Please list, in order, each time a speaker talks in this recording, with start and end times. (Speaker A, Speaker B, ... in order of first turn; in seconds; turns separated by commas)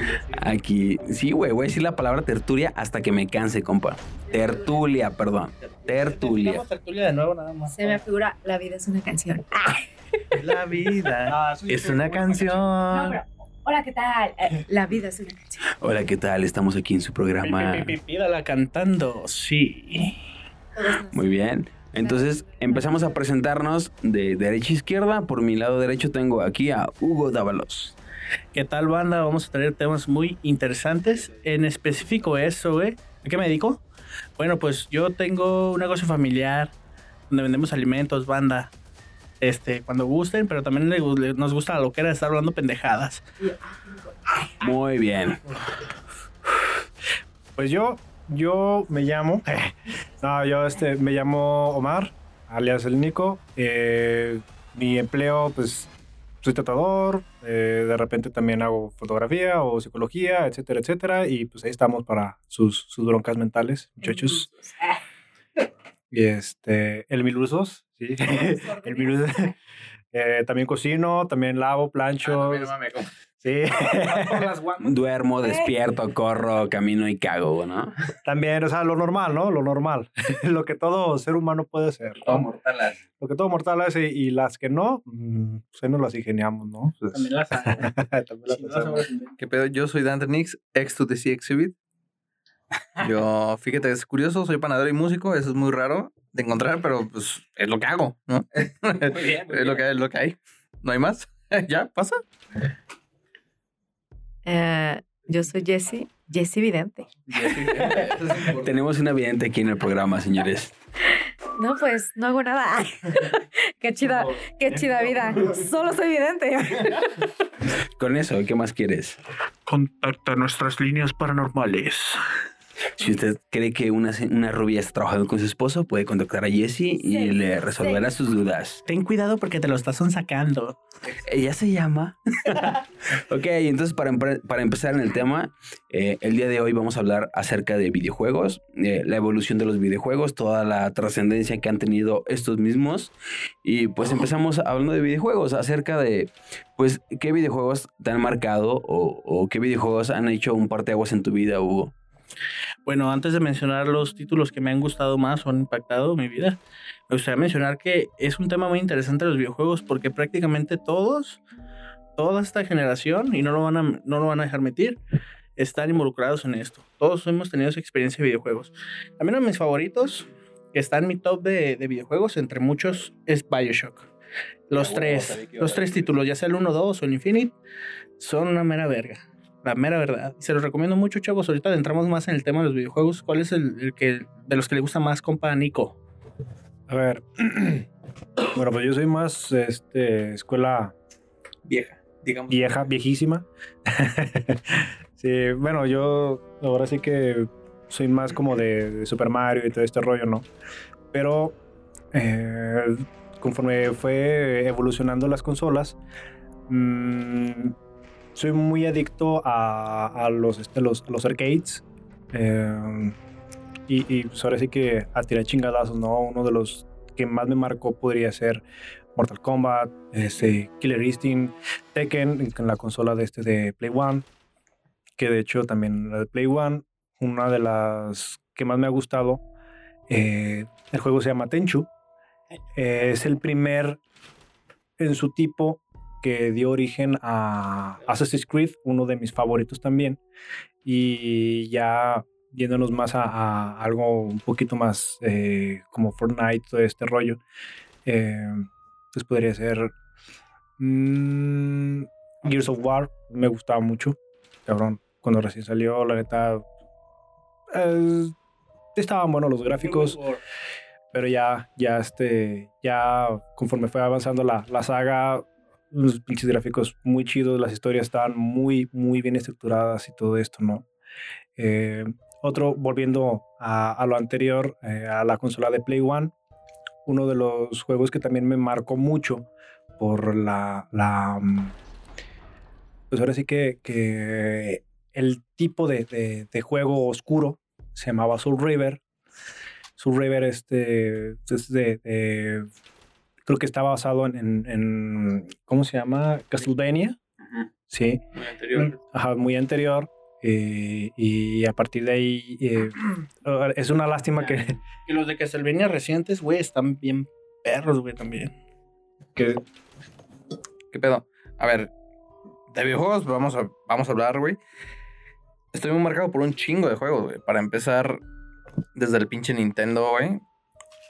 Speaker A: 0.3-6.6, Speaker B: 4.3-4.8, Speaker C: 5.6-8.0, Speaker B: 7.7-9.8, Speaker D: 10.3-13.2, Speaker C: 10.4-11.1, Speaker E: 11.3-12.8, Speaker B: 12.9-15.7, Speaker A: 15.8-18.0, Speaker C: 17.4-20.2, Speaker B: 20.8-21.4, Speaker A: 21.1-27.9, Speaker B: 22.0-23.2, Speaker C: 28.5-33.8, Speaker C: 34.4-36.7, Speaker C: 37.3-38.7, Speaker C: 39.4-43.2, Speaker B: 43.4-44.5, Speaker A: 44.6-45.4, Speaker E: 47.5-49.5, Speaker E: 50.2-64.4, Speaker B: 64.0-65.0, Speaker E: 66.1-69.5, Speaker B: 68.3-69.2, Speaker E: 70.1-72.7, Speaker D: 72.2-73.1, Speaker E: 73.4-74.5, Speaker C: 73.9-74.9, Speaker A: 74.8-77.9, Speaker B: 75.4-75.7, Speaker E: 78.2-82.5, Speaker D: 82.3-82.8, Speaker E: 83.2-89.1, Speaker C: 87.1-89.4, Speaker D: 89.4-91.7, Speaker D: 93.0-102.2, Speaker A: 99.0-99.9, Speaker B: 104.4-107.1, Speaker D: 107.3-108.7, Speaker A: 107.3-110.7, Speaker B: 111.6-117.2, Speaker A: 117.7-119.2, Speaker C: 119.7-122.2, Speaker A: 123.0-128.8, Speaker B: 127.0-128.1, Speaker C: 128.9-130.8, Speaker A: 131.1-143.1, Speaker A: 143.6-151.9, Speaker C: 152.9-156.6, Speaker C: 157.1-161.4, Speaker C: 162.2-165.0, Speaker C: 165.6-174.1, Speaker C: 174.7-177.5, Speaker A: 174.8-176.1, Speaker C: 178.2-186.0, Speaker E: 186.9-187.9, Speaker E: 188.5-190.9, Speaker D: 191.7-192.7, Speaker E: 192.5-200.5, Speaker E: 201.1-201.6, Speaker E: 202.1-206.0, Speaker E: 206.7-207.7, Speaker E: 208.3-213.2, Speaker E: 213.9-218.6, Speaker E: 219.2-224.3, Speaker E: 225.2-229.4, Speaker E: 230.1-231.9, Speaker E: 232.8-234.0, Speaker E: 235.0-240.2, Speaker E: 240.8-247.4, Speaker E: 248.1-249.9, Speaker E: 250.8-256.6, Speaker E: 257.7-258.3, Speaker E: 258.9-260.2, Speaker C: 259.8-260.4, Speaker E: 261.1-270.8, Speaker E: 271.6-276.3, Speaker E: 277.0-279.5, Speaker E: 280.0-281.7, Speaker E: 283.1-289.0, Speaker E: 290.0-292.7, Speaker E: 293.4-297.2, Speaker E: 297.9-298.2, Speaker D: 298.4-298.9, Speaker E: 298.7-304.8, Speaker C: 304.4-308.5, Speaker E: 309.4-309.6, Speaker D: 310.9-311.9, Speaker D: 312.7-314.6, Speaker D: 315.7-318.2, Speaker D: 318.9-320.4